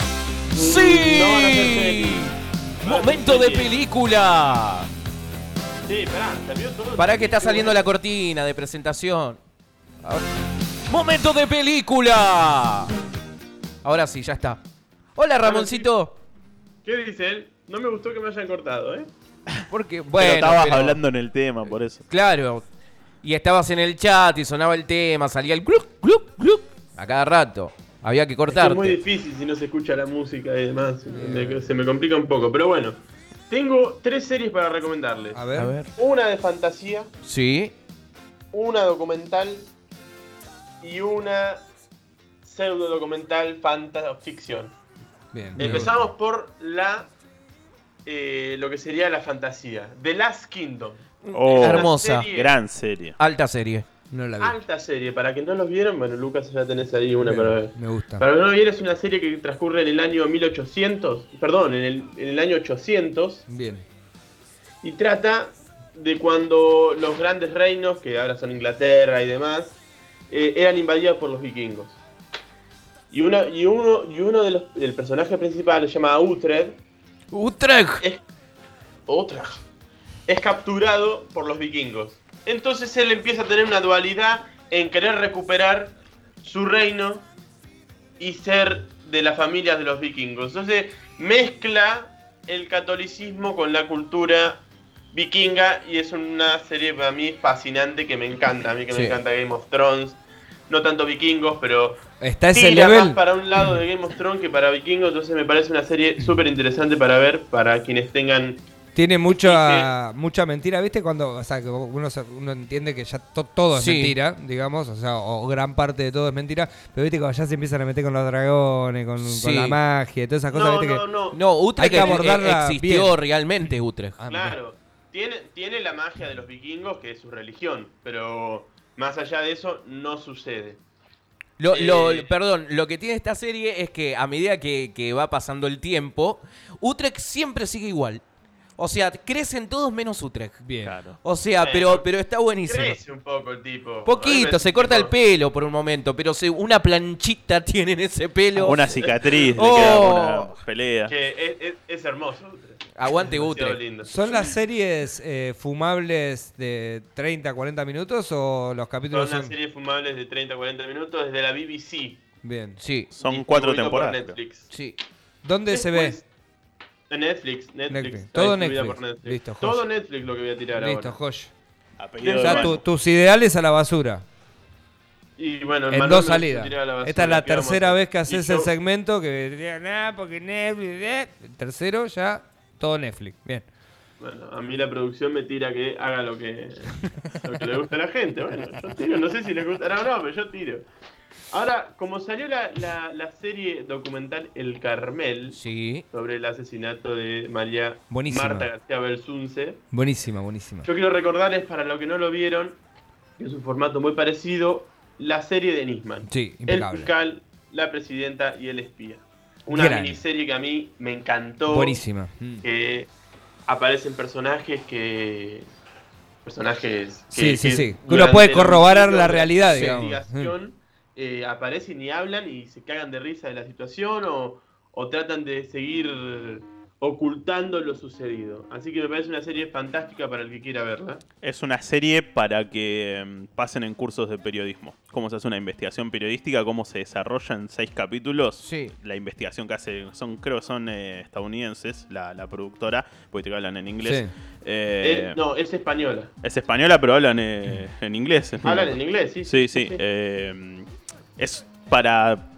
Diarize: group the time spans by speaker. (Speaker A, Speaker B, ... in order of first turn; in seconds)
Speaker A: 0.5-2.2, 2.8-3.7, 5.8-7.9, 15.4-15.9, 16.8-19.1, 28.5-33.0, 33.5-35.4, 35.9-37.1, 38.5-39.7, 40.8-41.6, 42.4-44.7, 45.6-47.1, 48.0-51.0, 51.6-52.5, 54.4-63.5, 64.8-72.0, 73.1-76.8, 79.1-79.6, 80.3-87.3, 88.2-102.0, 102.5-108.6, 109.4-109.9, 120.5-122.2, 124.2-130.8, 131.7-132.3, 141.6-142.1, 142.6-145.1, 149.0-150.2, 151.1-154.1, 159.1-162.2, 163.2-164.7, 165.7-166.2, 167.1-171.2, 172.2-172.8, 175.4-178.7, 184.2-190.8, 191.5-195.6, 196.1-199.8, 200.8-202.8, 203.4-212.0, 212.6-213.1, 213.7-215.7, 216.4-231.2, 245.0-246.3, 248.6-250.0
Speaker B: 0.5-4.9, 7.0-9.4, 10.9-12.9, 13.8-14.6, 15.2-16.2, 19.7-21.0, 22.1-22.6, 23.2-29.0, 35.5-35.9, 37.2-37.7, 51.2-52.3, 53.2-53.9, 77.3-78.0, 98.9-99.2, 113.7-114.1, 119.2-119.8, 121.3-124.2, 131.6-138.2, 138.8-140.6, 141.2-143.0, 144.0-150.5, 152.9-153.8, 162.8-163.1, 164.7-165.0, 195.5-196.0, 219.7-220.0, 238.6-238.9
Speaker C: 20.1-22.1, 51.3-53.2, 140.8-141.2, 148.5-151.1, 163.1-164.4, 172.0-172.8, 231.4-245.4, 246.4-252.4
Speaker D: 31.1-31.7, 35.3-35.7, 45.3-46.0, 54.1-54.5, 57.2-58.2, 63.5-63.8, 102.2-103.2, 108.9-121.0, 121.8-123.2, 124.2-124.5, 140.6-140.9, 154.0-159.5, 162.4-162.8, 165.4-166.2, 167.9-169.8, 170.7-171.5, 172.3-174.2, 175.9-183.7, 198.1-198.7, 199.9-200.9, 206.3-207.1, 209.7-210.2, 211.7-212.6, 217.3-220.5, 244.0-244.3